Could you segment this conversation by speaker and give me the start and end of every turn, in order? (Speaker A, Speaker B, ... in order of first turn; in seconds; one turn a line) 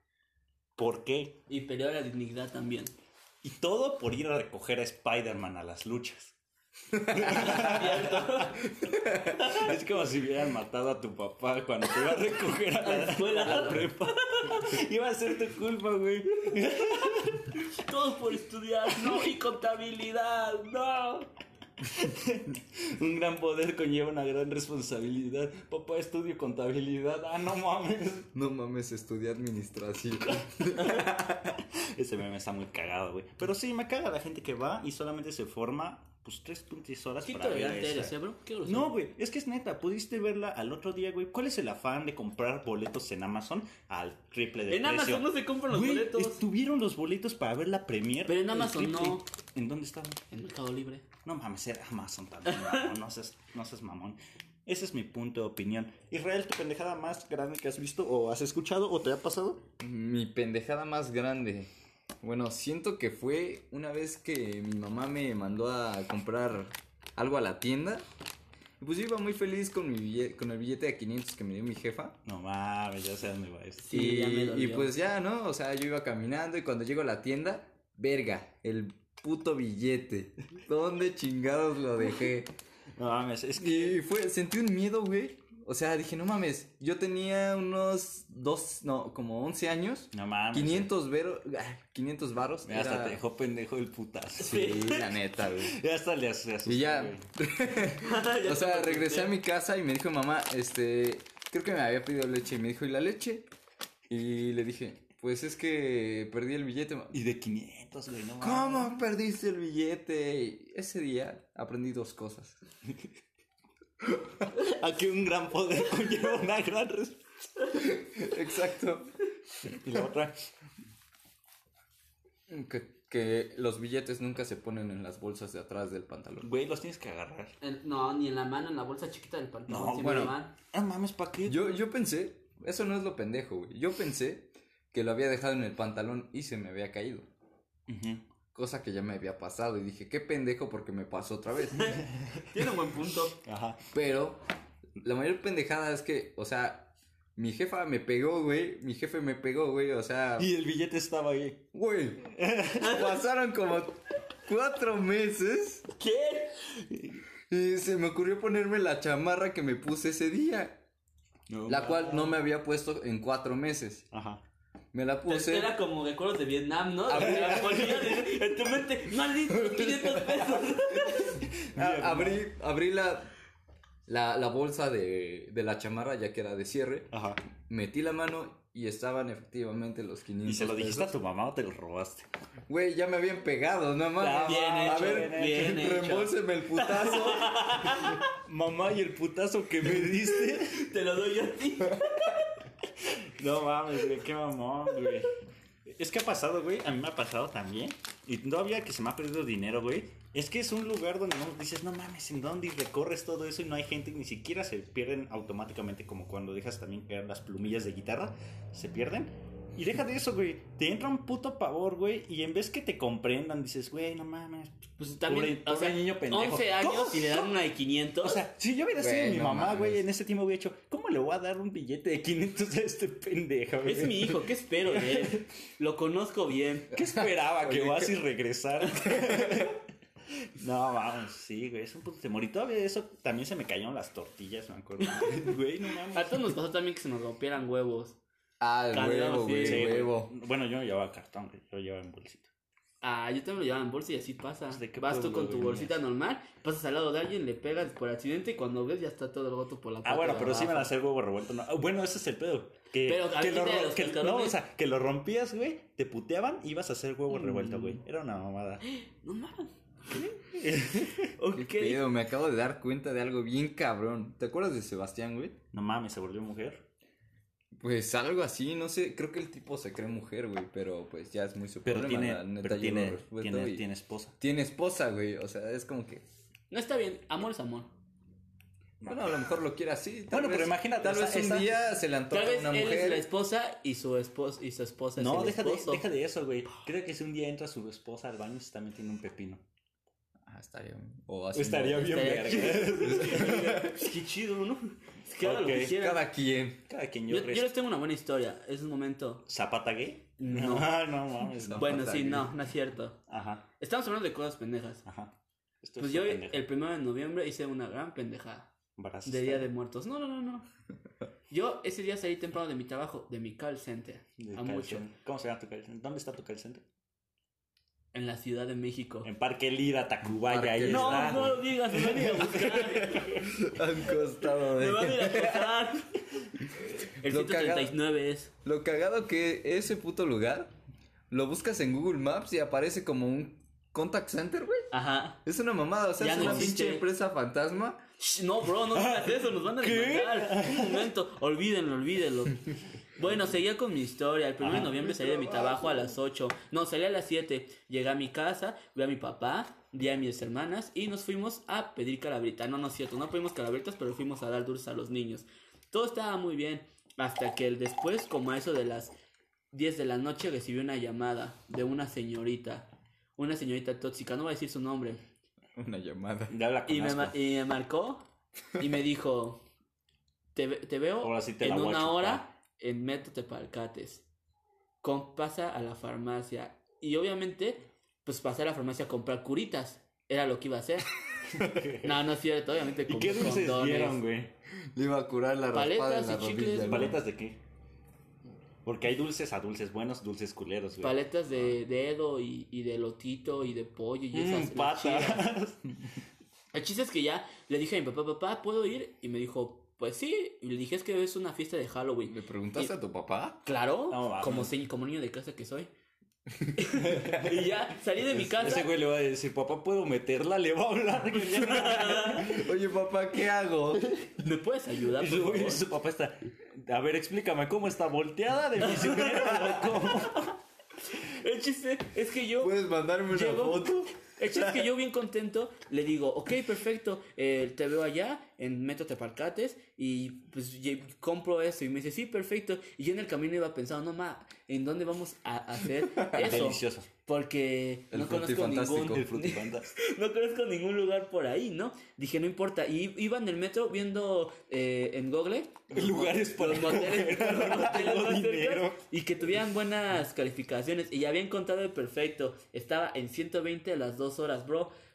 Speaker A: 0.8-1.4
Speaker B: 1.5-2.9
Speaker A: 3.4-6.3
Speaker C: 6.9-7.3
Speaker A: 7.0-8.6
Speaker B: 7.2-8.7
Speaker C: 8.7-9.6
Speaker A: 9.3-17.6
Speaker B: 12.8-14.7
Speaker B: 16.9-21.3
Speaker A: 21.9-28.3
Speaker C: 28.3-31.6
Speaker A: 30.8-38.1
Speaker B: 37.2-39.0
Speaker A: 38.6-50.2
Speaker B: 44.7-46.4
Speaker B: 48.3-49.2
Speaker B: 50.3-51.0
Speaker A: 51.2-59.6
Speaker B: 52.5-52.9
Speaker C: 59.8-61.7
Speaker C: 62.2-68.0
Speaker C: 68.8-72.2
Speaker A: 72.2-73.9
Speaker B: 73.8-74.9
Speaker C: 73.9-82.5
Speaker A: 83.0-84.0
Speaker C: 83.6-93.2
Speaker A: 90.1-90.9
Speaker A: 92.7-94.7
Speaker C: 94.4-95.8
Speaker B: 94.4-95.2
Speaker A: 95.6-97.3
Speaker C: 96.7-103.5
Speaker B: 98.0-99.4
Speaker C: 104.1-107.2
Speaker A: 107.1-108.9
Speaker C: 108.4-112.6
Speaker A: 114.5-117.2
Speaker C: 117.8-119.1
Speaker A: 119.6-120.5
Speaker C: 122.5-126.5
Speaker A: 126.4-127.5
Speaker B: 127.6-130.5
Speaker A: 129.7-131.7
Speaker C: 130.0-130.3
Speaker C: 131.5-137.3
Speaker A: 137.9-138.2
Speaker C: 138.5-142.0
Speaker B: 141.8-143.4
Speaker A: 142.1-142.5
Speaker A: 143.4-143.8
Speaker C: 143.9-144.4
Speaker C: 145.0-150.5
Speaker A: 150.4-151.7
Speaker C: 151.7-155.9
Speaker A: 152.3-152.9
Speaker B: 156.0-157.1
Speaker C: 157.5-160.8
Speaker A: 161.5-162.4
Speaker C: 161.7-164.1
Speaker A: 164.1-164.4
Speaker C: 164.9-165.8
Speaker B: 165.3-171.4
Speaker C: 167.1-168.2
Speaker C: 169.5-173.3
Speaker A: 171.7-172.4
Speaker C: 174.1-181.1
Speaker A: 177.1-177.4
Speaker A: 180.4-182.3
Speaker C: 182.7-188.2
Speaker A: 184.2-185.8
Speaker B: 184.4-188.3
Speaker A: 188.4-190.9
Speaker B: 190.3-192.6
Speaker A: 193.0-195.3
Speaker A: 195.9-217.5
Speaker B: 215.0-218.4
Speaker A: 218.2-225.4
Speaker C: 219.0-220.0
Speaker B: 223.8-226.9
Speaker A: 226.9-229.8
Speaker C: 227.0-228.2
Speaker C: 229.0-229.7
Speaker A: 230.6-236.5
Speaker B: 236.1-238.2
Speaker C: 238.6-240.3
Speaker B: 238.9-240.1
Speaker A: 239.6-242.5
Speaker B: 243.0-250.9
Speaker A: 244.7-246.0
Speaker A: 250.0-258.8
Speaker B: 253.1-254.6
Speaker B: 257.3-258.0
Speaker B: 258.9-260.4
Speaker A: 260.5-261.3
Speaker B: 261.4-262.0
Speaker C: 261.5-265.6
Speaker A: 265.7-266.9
Speaker C: 267.8-273.9
Speaker A: 271.9-274.4
Speaker C: 274.4-276.2
Speaker B: 276.7-277.9
Speaker A: 279.0-279.4
Speaker C: 279.1-283.2
Speaker A: 280.3-281.9
Speaker B: 282.3-286.0
Speaker A: 285.2-289.6
Speaker C: 290.5-294.1
Speaker A: 291.5-294.0
Speaker B: 292.0-296.2
Speaker A: 295.4-296.0
Speaker C: 295.8-296.8
Speaker A: 296.9-297.7
Speaker B: 297.3-299.4
Speaker A: 299.5-302.2
Speaker B: 300.4-301.0
Speaker C: 301.6-302.5
Speaker B: 301.8-303.2
Speaker A: 303.3-303.6
Speaker B: 303.8-305.0
Speaker A: 305.1-306.6
Speaker B: 306.0-308.7
Speaker A: 309.0-309.7
Speaker B: 309.2-310.6
Speaker B: 311.5-315.0
Speaker A: 314.4-316.9
Speaker B: 318.1-319.3
Speaker A: 319.2-323.5
Speaker C: 320.4-325.9
Speaker B: 320.9-323.4
Speaker B: 324.5-326.2
Speaker C: 326.7-328.0
Speaker B: 327.1-328.5
Speaker C: 328.6-330.7
Speaker C: 331.3-334.9
Speaker B: 334.9-335.4
Speaker C: 335.4-338.0
Speaker B: 336.2-337.1
Speaker A: 336.3-336.7
Speaker B: 338.2-359.1
Speaker A: 338.9-341.1
Speaker A: 344.6-344.9
Speaker C: 344.6-346.2
Speaker B: 359.7-365.2
Speaker C: 365.8-366.5
Speaker A: 366.5-367.4
Speaker B: 366.9-368.2
Speaker B: 368.8-369.6
Speaker B: 370.6-374.2
Speaker A: 371.2-372.5
Speaker B: 375.0-381.1
Speaker A: 381.4-382.2
Speaker B: 382.0-384.2
Speaker A: 383.1-384.5
Speaker C: 384.9-387.2
Speaker B: 385.7-387.2
Speaker A: 386.9-387.6
Speaker A: 388.9-391.2
Speaker B: 391.0-395.5
Speaker A: 394.3-395.9
Speaker B: 396.7-402.9
Speaker C: 402.3-403.6
Speaker B: 403.6-405.9
Speaker A: 404.1-404.7
Speaker B: 406.8-408.9
Speaker C: 407.0-407.5
Speaker A: 407.0-407.6
Speaker A: 408.4-412.6
Speaker B: 411.4-412.5
Speaker C: 412.4-414.2
Speaker B: 414.3-415.9
Speaker A: 415.2-420.5
Speaker B: 418.9-420.5
Speaker B: 421.2-454.9
Speaker C: 422.6-424.9
Speaker C: 436.1-436.6
Speaker A: 436.3-437.1
Speaker C: 438.1-439.3
Speaker A: 439.1-439.9
Speaker A: 445.9-449.0